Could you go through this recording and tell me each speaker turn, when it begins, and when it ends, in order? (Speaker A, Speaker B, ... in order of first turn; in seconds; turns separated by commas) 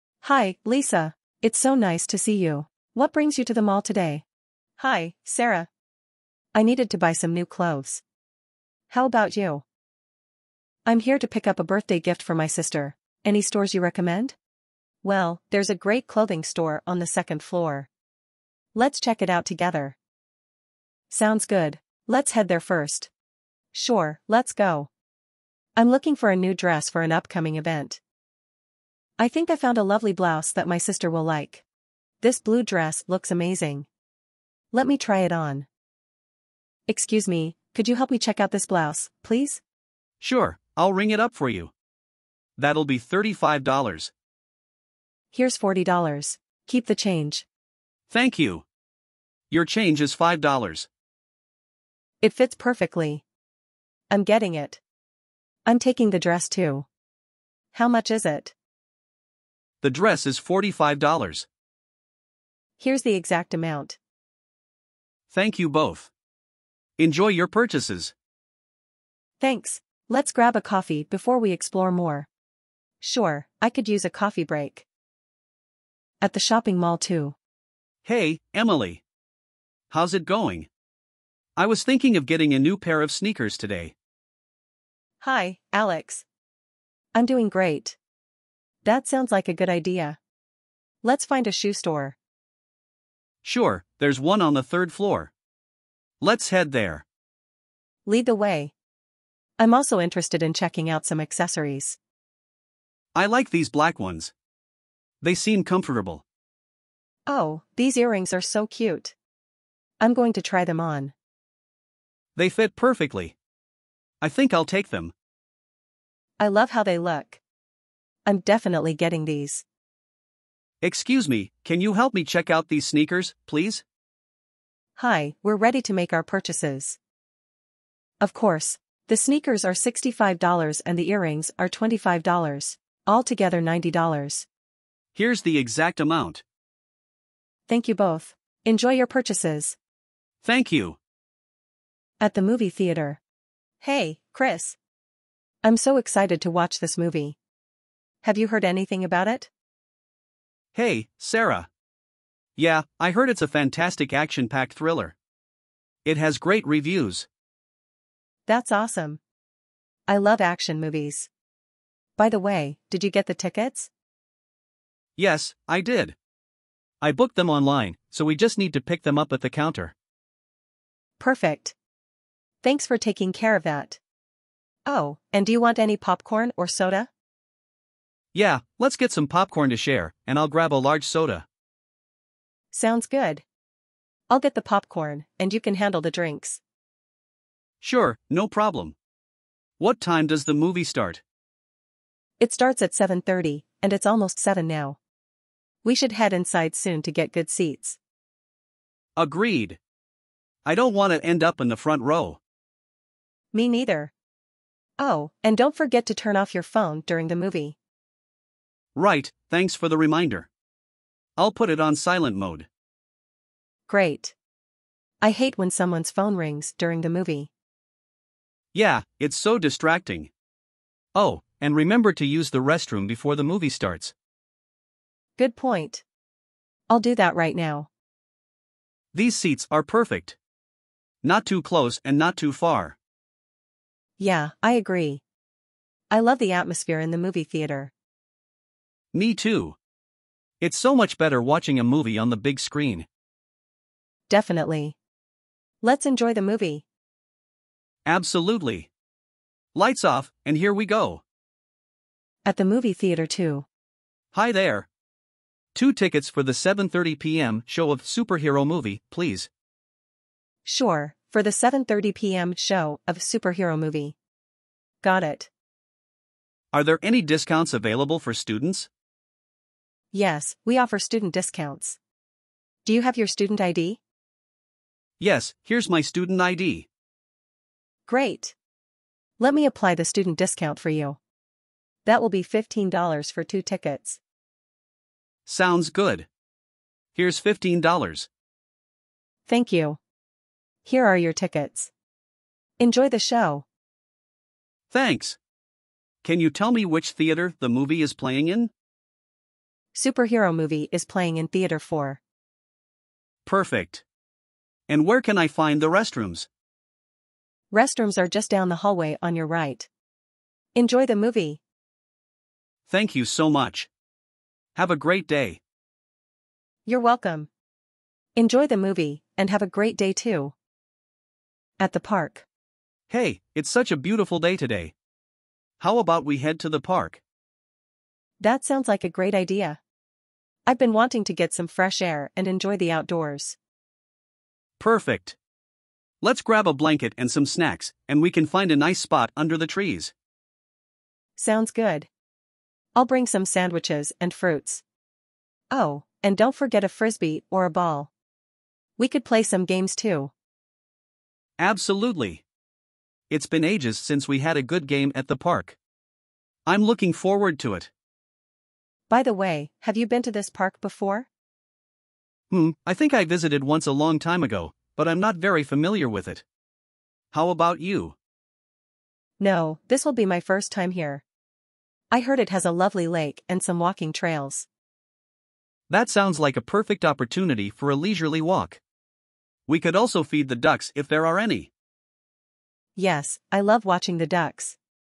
Speaker A: 0.2-4.2, Speaker A: 4.8-5.7, Speaker A: 6.5-8.0, Speaker A: 8.9-9.6, Speaker A: 10.8-14.3, Speaker A: 15.0-17.9, Speaker A: 18.7-19.9, Speaker A: 21.1-23.1, Speaker A: 23.7-24.9, Speaker A: 25.8-28.0, Speaker A: 29.2-31.6, Speaker A: 32.2-33.9, Speaker A: 34.7-35.7, Speaker A: 36.9-39.6, Speaker B: 40.2-41.7, Speaker B: 42.6-44.1, Speaker A: 45.3-47.5, Speaker B: 48.1-48.6, Speaker B: 49.5-50.9, Speaker A: 52.2-53.2, Speaker A: 54.1-54.8, Speaker A: 55.6-56.9, Speaker A: 57.7-58.5, Speaker B: 59.8-61.5, Speaker A: 62.8-64.0, Speaker B: 65.3-66.1, Speaker B: 67.0-68.1, Speaker A: 69.4-72.3, Speaker A: 73.0-74.8, Speaker A: 76.2-77.3, Speaker B: 78.0-79.0, Speaker B: 79.9-80.7, Speaker B: 81.5-83.9, Speaker A: 85.2-86.2, Speaker A: 87.1-88.0, Speaker A: 88.8-90.2, Speaker A: 91.0-92.2, Speaker B: 93.4-95.3, Speaker B: 96.2-97.0, Speaker A: 98.0-98.7, Speaker A: 99.6-102.0, Speaker B: 103.1-104.3, Speaker B: 105.2-106.2, Speaker A: 107.3-109.1, Speaker A: 110.0-111.1, Speaker B: 112.3-113.3, Speaker B: 114.2-115.1, Speaker A: 116.4-117.4, Speaker A: 118.2-119.6, Speaker B: 120.8-123.8, Speaker A: 125.0-127.0, Speaker A: 128.2-134.4, Speaker B: 135.1-136.4, Speaker A: 137.7-139.8, Speaker B: 140.4-141.0, Speaker A: 142.2-143.2, Speaker A: 143.8-144.8, Speaker A: 145.6-147.4, Speaker A: 148.2-149.5, Speaker B: 150.7-151.7, Speaker B: 152.6-155.1, Speaker B: 156.0-157.3, Speaker A: 158.5-159.2, Speaker A: 160.1-161.3, Speaker A: 162.2-163.9, Speaker B: 165.2-166.2, Speaker B: 167.0-169.9, Speaker A: 171.2-171.7, Speaker A: 172.6-174.0, Speaker A: 174.8-177.1, Speaker B: 178.3-181.4, Speaker A: 182.7-183.4, Speaker A: 184.3-186.6, Speaker B: 187.8-188.9, Speaker B: 189.8-191.2, Speaker A: 192.4-195.0, Speaker A: 195.8-198.0, Speaker B: 199.2-199.8, Speaker B: 200.6-202.4, Speaker A: 203.5-204.1, Speaker A: 205.0-207.8, Speaker B: 208.9-210.5, Speaker B: 211.4-212.7, Speaker A: 213.9-214.3, Speaker A: 215.2-217.5, Speaker B: 218.7-220.3, Speaker B: 221.1-224.1, Speaker A: 225.4-226.0, Speaker A: 226.9-227.9, Speaker B: 229.1-230.4, Speaker B: 231.2-232.9, Speaker A: 234.2-235.2, Speaker A: 236.1-237.9, Speaker B: 239.1-239.8, Speaker B: 240.6-243.1, Speaker A: 244.3-244.9, Speaker A: 245.8-246.8, Speaker B: 248.0-248.9, Speaker B: 249.7-251.2, Speaker A: 252.4-253.7, Speaker B: 254.3-254.9, Speaker B: 255.7-259.5, Speaker A: 260.6-264.1, Speaker A: 265.0-265.5, Speaker B: 266.7-268.9, Speaker A: 270.1-272.0, Speaker A: 272.8-274.0, Speaker B: 275.2-276.9, Speaker A: 278.1-278.5, Speaker A: 279.4-281.2, Speaker A: 282.0-284.2, Speaker B: 285.4-286.3, Speaker B: 287.1-288.3, Speaker A: 289.5-290.0, Speaker A: 290.8-291.9, Speaker A: 292.8-293.6, Speaker B: 294.9-295.4, Speaker B: 296.2-298.7, Speaker A: 299.9-302.2, Speaker B: 303.4-304.0, Speaker B: 304.9-306.5, Speaker A: 307.7-309.9, Speaker A: 310.7-311.6, Speaker B: 312.9-313.9, Speaker B: 314.8-315.6, Speaker A: 316.9-317.5, Speaker A: 318.4-320.5, Speaker A: 321.8-322.4, Speaker B: 323.1-324.9, Speaker B: 325.8-327.2, Speaker A: 328.4-329.8, Speaker A: 330.7-333.6, Speaker B: 334.8-335.4, Speaker B: 336.2-340.1, Speaker A: 341.4-342.1, Speaker A: 342.9-344.8, Speaker A: 345.7-348.1, Speaker A: 349.0-350.3, Speaker B: 351.6-352.4, Speaker B: 353.3-355.8, Speaker B: 356.6-357.9, Speaker A: 359.1-361.3, Speaker B: 362.5-366.4, Speaker B: 367.3-368.1, Speaker A: 369.4-371.2, Speaker A: 372.1-374.7, Speaker B: 375.9-378.8, Speaker B: 379.7-381.7, Speaker A: 382.9-384.8